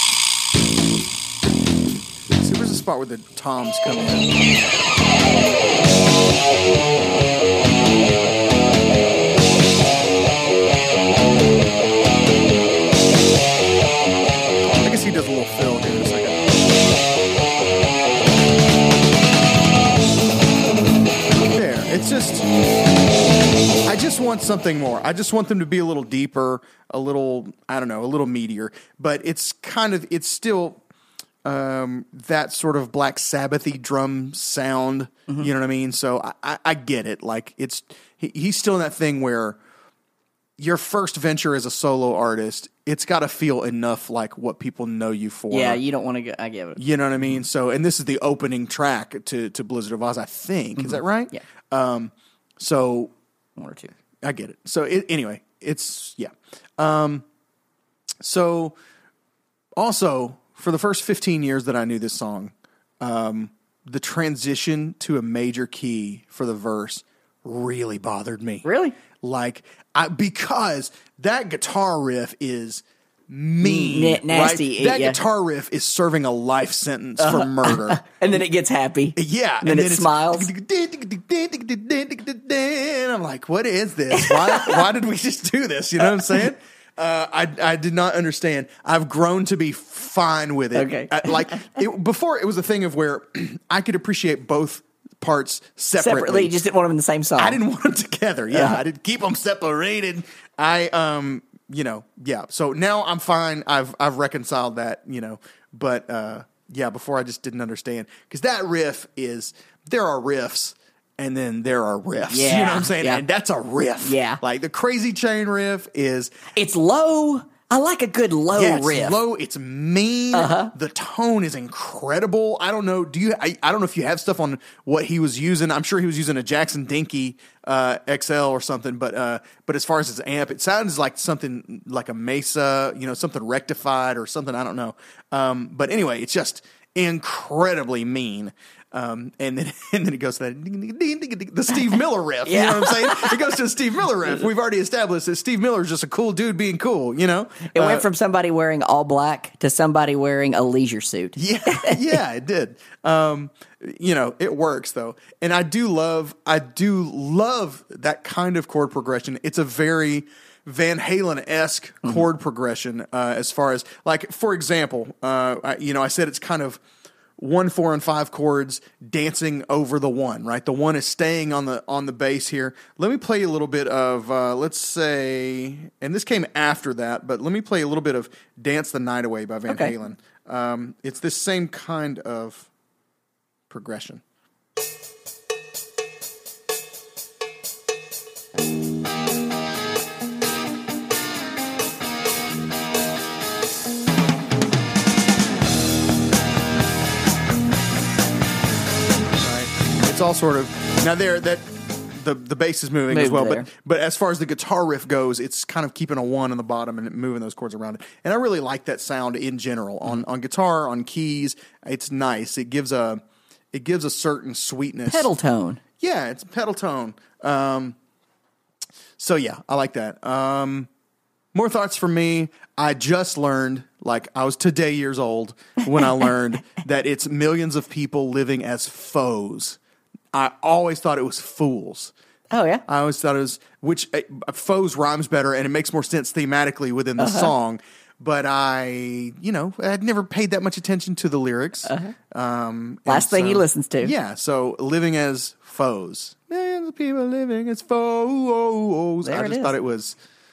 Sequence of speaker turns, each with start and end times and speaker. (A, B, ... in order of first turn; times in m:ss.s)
0:02.3-0:04.5 A
0:14.8-0:16.5 A
0:21.5-0:22.5 A
0:23.8-0:30.8 A
0:31.4-0:39.6 A
0:40.6-0:45.8 A
0:45.5-0:46.8 B
0:46.8-0:53.1 A
0:50.8-0:51.4 B
0:53.6-0:53.9 B
0:54.2-0:57.2 A
0:58.2-0:58.8 A
0:59.8-1:08.6 A
1:08.6-1:09.0 B
1:09.2-1:18.0 A
1:13.6-1:15.2 B
1:17.2-1:20.5 B
1:19.2-1:36.5 A
1:24.1-1:24.8 B
1:30.7-1:31.7 B
1:36.0-1:37.6 B
1:37.4-1:56.3 A
1:38.5-1:38.8 B
1:52.3-1:53.2 B
1:54.0-1:54.4 B
1:56.6-1:59.2 B
1:58.5-2:28.0 A
2:00.3-2:00.7 B
2:22.4-2:23.4 B
2:27.7-2:32.2 B
2:31.4-2:46.8 A
2:47.4-3:02.7 A
2:59.7-2:59.9 B
3:03.7-3:04.2 A
3:19.4-3:33.2 A
3:23.1-3:23.7 B
3:33.7-3:35.3 A
3:35.1-3:35.8 B
3:36.0-3:38.0 A
3:39.2-3:40.9 A
3:41.5-3:49.8 A
3:50.3-3:52.1 A
3:52.5-3:52.8 B
3:52.9-4:10.2 A
3:57.2-3:57.5 B
4:01.8-4:02.1 B
4:03.1-4:04.1 B
4:09.2-4:09.8 B